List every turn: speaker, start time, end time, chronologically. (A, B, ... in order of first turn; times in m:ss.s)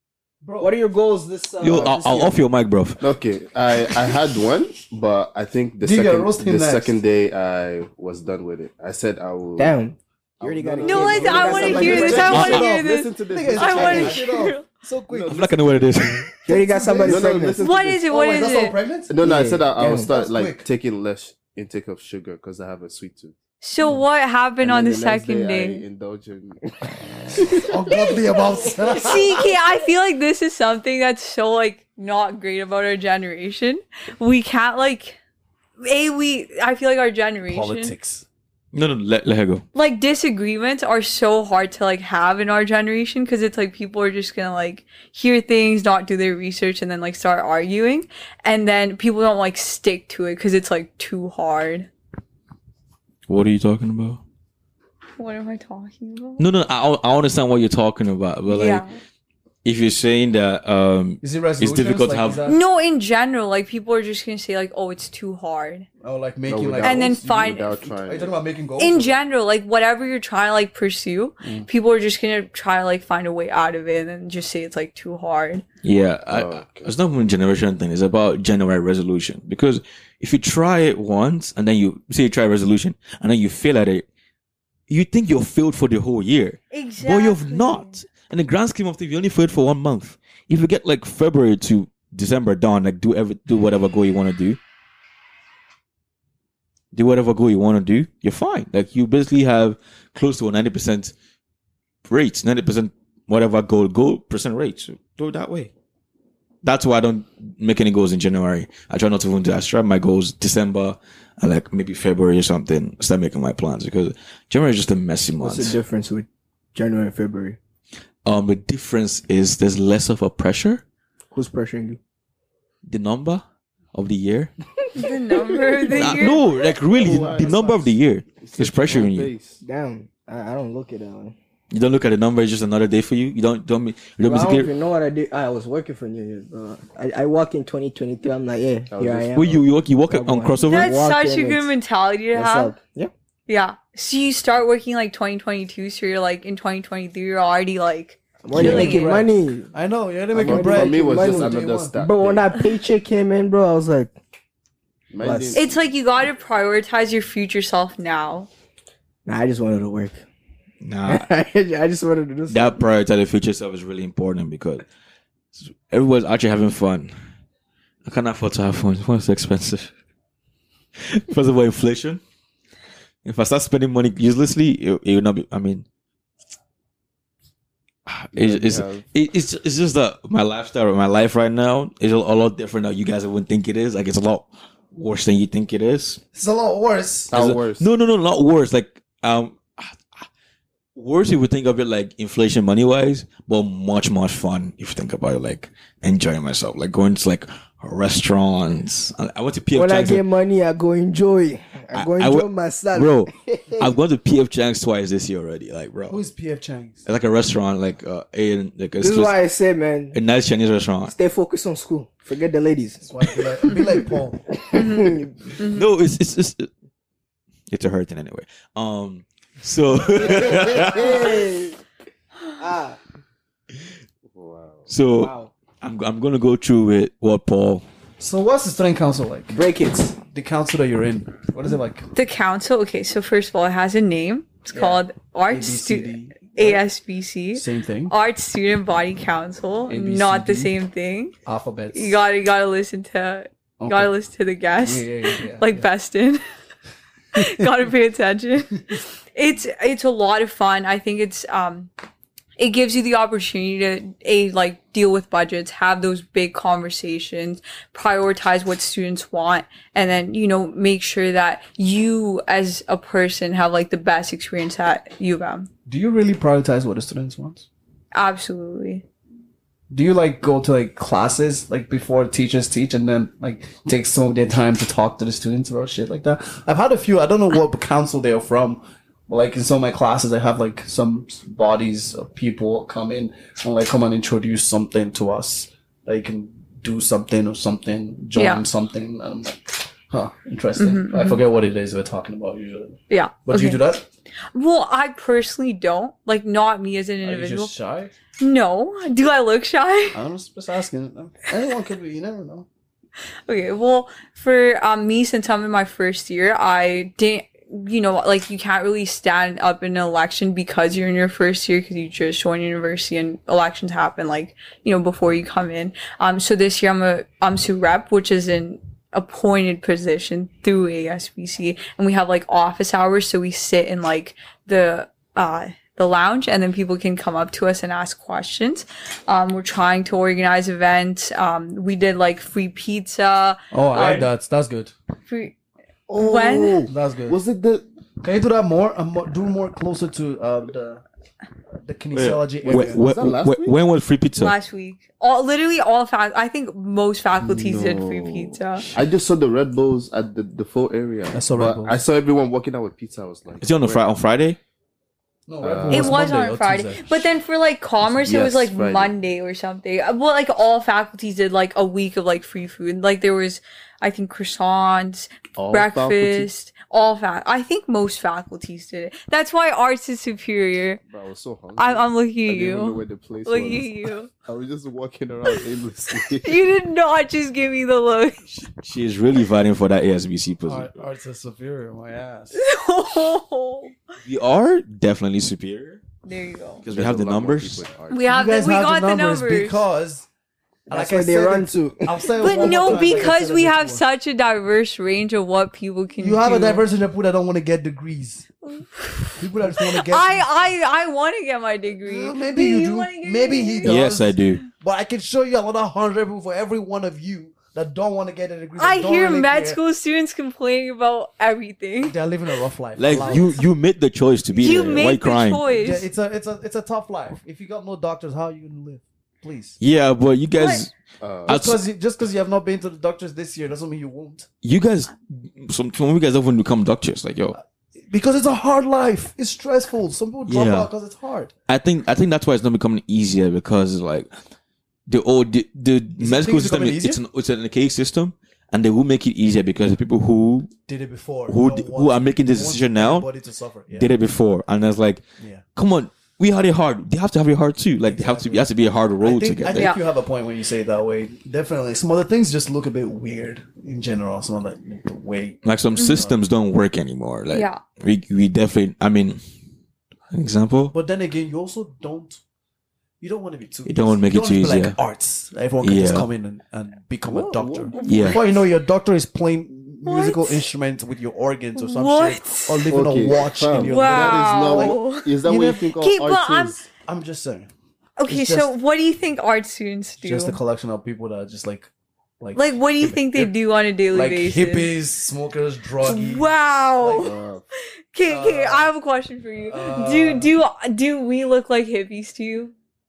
0:00.4-0:00.8 A
0:00.6-0:02.4 B
0:01.6-0:03.0 C
0:03.0-0:09.8 D
0:05.8-0:07.0 A
0:09.6-0:12.4 B
0:10.4-0:14.2 D
0:10.8-0:14.7 E
0:11.0-0:19.2 A
0:12.3-0:12.7 C
0:13.8-0:14.2 B
0:15.1-0:16.0 D
0:15.3-0:16.3 C
0:16.5-0:17.6 B
0:17.0-0:18.0 D
0:17.6-0:18.8 E
0:19.1-0:23.4 D
0:19.2-0:20.1 B
0:19.8-0:20.7 A
0:23.6-0:25.8 E
0:24.6-0:26.7 D
0:27.4-0:27.7 D
0:27.6-0:29.4 A
0:27.9-0:29.4 B
0:28.9-0:35.2 E
0:35.8-0:37.9 E
0:37.5-0:38.2 A
0:38.7-0:39.6 C
0:39.7-0:51.9 E
0:53.3-0:54.2 C
0:55.2-0:56.4 E
0:56.4-0:58.8 C
0:58.5-0:59.0 E
0:59.6-1:02.4 C
1:01.2-1:02.6 A
1:02.5-1:05.9 E
1:06.0-1:09.1 A
1:06.5-1:08.4 D
1:06.8-1:07.6 E
1:08.8-1:15.6 E
1:15.8-1:24.0 C
1:16.3-1:16.9 D
1:24.9-1:34.6 C
1:26.7-1:28.0 E
1:36.9-1:41.1 C
1:42.0-1:45.7 C
1:46.6-1:55.8 C
1:55.4-1:57.6 B
1:58.2-2:00.8 C
2:01.3-2:02.0 B
2:02.9-2:03.4 C
2:03.9-2:04.5 C
2:05.0-2:06.5 E
2:05.9-2:09.3 C
2:06.9-2:09.6 D
2:09.6-2:11.4 B
2:11.7-2:14.7 C
2:14.2-2:21.7 B
2:18.9-2:19.6 D
2:19.3-2:21.0 C
2:20.6-2:22.8 E
2:22.3-2:23.1 B
2:23.5-2:29.2 E
2:28.4-2:29.7 B
2:28.5-2:32.0 A
2:30.3-2:34.1 B
2:30.4-2:32.5 D
2:35.1-2:35.7 D
2:35.2-2:35.6 B
2:35.5-2:38.5 E
2:39.3-2:40.2 B
2:40.8-2:41.3 C
2:41.1-2:42.8 B
2:42.5-2:44.9 C
2:45.5-2:47.1 C
2:48.0-2:49.9 C
2:51.0-2:52.2 C
2:53.2-2:55.8 C
2:58.1-3:06.2 C
2:58.3-2:59.0 D
3:06.3-3:07.3 A
3:07.3-3:07.9 D
3:07.3-3:10.3 C
3:11.0-3:20.2 C
3:19.8-3:23.9 B
3:21.9-3:26.2 C
3:26.1-3:27.0 A
3:27.1-3:29.4 C
3:29.0-3:30.2 B
3:30.1-3:31.1 C
3:31.1-3:33.1 B
3:33.0-3:34.5 A
3:34.6-3:35.3 B
3:34.7-3:35.9 E
3:35.6-3:36.7 C
3:37.7-3:41.4 C
3:40.2-3:41.8 B
3:42.6-3:43.0 B
3:44.2-3:44.9 D
3:44.9-3:47.8 C
3:45.2-3:45.5 B
3:48.2-3:49.6 A
3:49.5-3:50.2 B
3:50.2-3:52.1 A
3:52.1-4:01.4 E
3:54.7-3:56.8 A
3:57.6-3:58.1 A
3:59.9-4:00.7 A
4:01.4-4:02.2 A
4:01.9-4:06.4 E
4:03.8-4:04.1 A
4:04.8-4:05.9 A
4:07.3-4:11.9 E
4:07.4-4:07.6 A
4:12.6-4:25.7 E
4:25.9-4:27.7 A
4:28.1-4:29.0 E
4:29.9-4:54.1 A
4:48.4-4:48.6 E
4:50.8-4:51.4 E
4:53.1-4:53.8 E
4:54.5-4:57.7 E
4:57.2-4:58.1 A
4:58.4-5:00.2 E
5:00.1-5:02.7 A
5:03.5-5:34.3 E
5:33.7-5:34.9 A
5:35.3-5:35.6 E
5:36.1-5:37.8 D
5:36.2-5:36.9 E
5:36.9-5:37.4 A
5:38.2-5:41.0 A
5:41.8-5:43.0 A
5:42.1-5:44.6 C
5:42.6-5:43.8 D
5:44.4-5:48.8 E
5:47.4-5:54.0 D
5:51.3-5:52.0 A
5:53.6-5:54.6 C
5:55.5-5:57.3 A
5:55.6-5:56.2 D
5:55.9-6:11.0 E
5:58.2-5:59.1 D
6:05.6-6:06.5 D
6:11.1-6:16.6 D
6:11.8-6:14.3 E
6:16.2-6:18.6 E
6:18.7-6:20.9 C
6:20.7-6:22.6 A
6:22.5-6:24.0 E
6:24.2-6:26.0 C
6:26.2-6:26.8 E
6:26.8-6:27.9 C
6:26.9-6:28.3 D
6:28.1-6:29.8 E
6:28.3-6:30.3 A
6:30.9-6:34.0 A
6:30.9-6:33.3 B
6:32.4-6:36.8 E
6:36.2-6:38.5 A
6:38.6-6:44.0 E
6:39.4-6:40.6 A
6:42.0-6:49.8 A
6:43.8-6:44.6 C
6:48.8-6:52.2 E
6:52.0-6:53.6 A
6:53.0-6:55.6 C
6:53.0-6:53.6 E
6:54.6-6:56.1 E
6:54.8-6:55.0 A
6:55.7-6:59.8 A
6:59.8-7:00.9 C
7:00.6-7:00.9 E
7:01.2-7:01.5 D
7:01.5-7:01.8 C
7:01.5-7:04.5 A
7:04.6-7:07.6 C
7:07.5-7:11.5 A
7:10.5-7:10.9 C
7:11.7-7:14.3 C
7:15.1-7:20.7 C
7:16.2-7:17.2 A
7:20.9-7:24.1 A
7:21.5-7:23.3 C
7:23.9-7:25.2 C
7:25.4-7:25.6 A
7:25.8-7:29.9 C
7:28.0-7:28.7 A
7:29.2-7:36.4 A
7:29.7-7:30.0 E
7:35.6-7:39.4 C
7:36.0-7:36.2 E
7:37.5-7:37.8 E
7:40.3-7:41.0 C
7:40.9-7:42.4 A
7:43.2-7:55.9 A
7:43.8-7:45.0 C
7:45.8-7:46.3 C
7:47.3-7:48.0 D
7:47.9-7:48.6 E
7:48.0-7:48.4 C
7:50.0-7:50.7 E
7:51.8-7:53.0 E
7:52.9-7:56.9 D
7:53.8-7:55.4 E
7:55.9-7:56.8 E
7:57.0-7:57.7 A
7:58.2-8:00.6 E
7:58.3-7:58.7 A
8:00.2-8:03.5 A
8:02.6-8:04.9 E
8:04.1-8:06.5 A
8:06.0-8:07.4 E
8:07.0-8:07.3 A
8:07.2-8:07.6 D
8:08.1-8:12.7 E
8:08.3-8:08.9 A
8:09.7-8:10.5 A